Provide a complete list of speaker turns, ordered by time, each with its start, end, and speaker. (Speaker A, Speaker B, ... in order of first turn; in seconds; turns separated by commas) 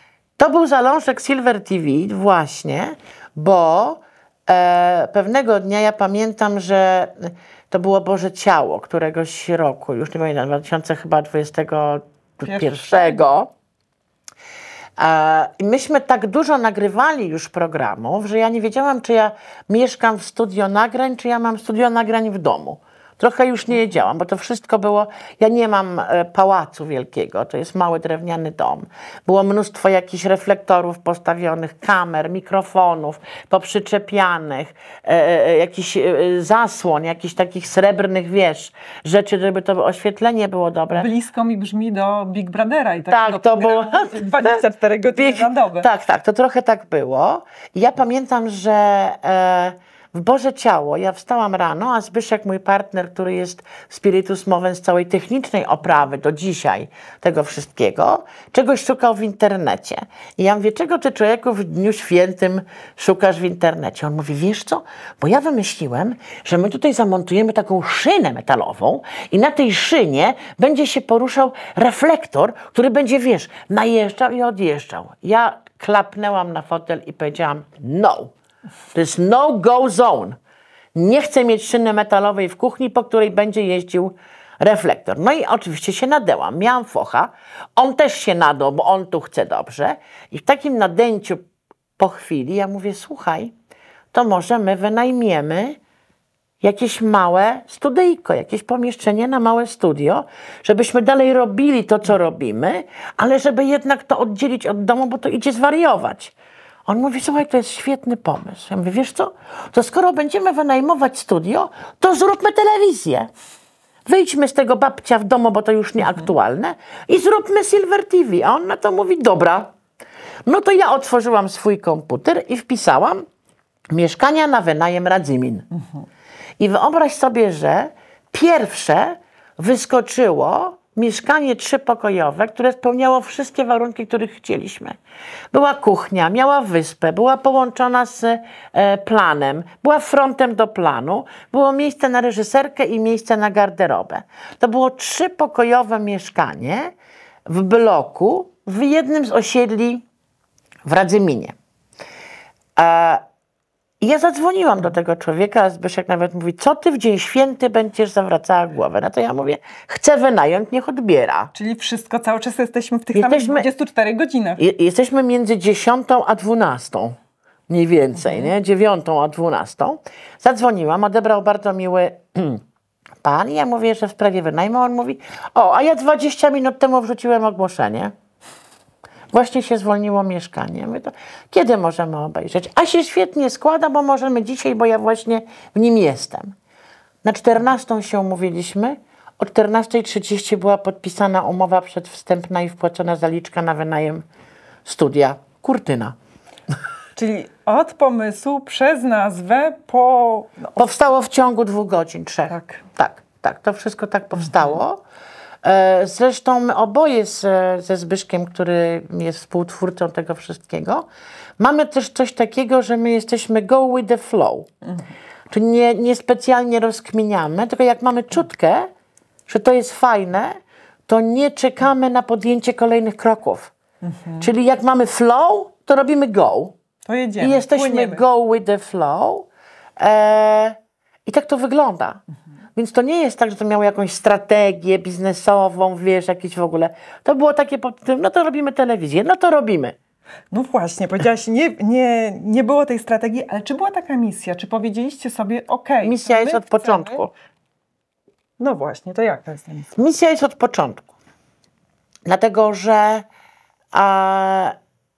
Speaker A: 0.4-13.5, Speaker B: 12.4-13.3, Speaker A: 15.0-41.1, Speaker B: 40.9-45.9, Speaker A: 43.1-78.3, Speaker A: 78.9-80.4, Speaker A: 80.9-91.4, Speaker A: 92.0-93.5, Speaker A: 94.1-95.8, Speaker A: 96.6-106.3, Speaker A: 106.9-113.3, Speaker A: 114.1-119.7, Speaker A: 120.5-123.2, Speaker A: 123.9-125.7, Speaker A: 126.6-135.0, Speaker A: 135.5-146.9, Speaker A: 147.5-150.0, Speaker A: 150.8-151.5, Speaker A: 152.8-153.2, Speaker A: 154.0-161.5, Speaker B: 161.5-164.6, Speaker A: 163.1-163.7, Speaker A: 164.6-167.2, Speaker A: 167.7-172.6, Speaker A: 173.2-178.1, Speaker A: 179.3-186.5, Speaker A: 187.2-194.2, Speaker A: 194.8-196.1, Speaker B: 197.2-200.8, Speaker A: 200.8-205.0, Speaker B: 202.5-202.8, Speaker A: 205.6-211.1, Speaker A: 211.6-214.7, Speaker A: 215.5-218.9, Speaker A: 219.5-223.7, Speaker B: 224.0-224.5, Speaker A: 224.4-226.8, Speaker B: 227.0-228.2, Speaker A: 227.4-229.5, Speaker A: 230.0-232.2, Speaker A: 232.8-239.9, Speaker B: 240.5-247.2, Speaker A: 246.0-247.3, Speaker B: 248.6-249.9, Speaker A: 249.9-251.1, Speaker A: 252.2-253.2, Speaker A: 253.9-254.7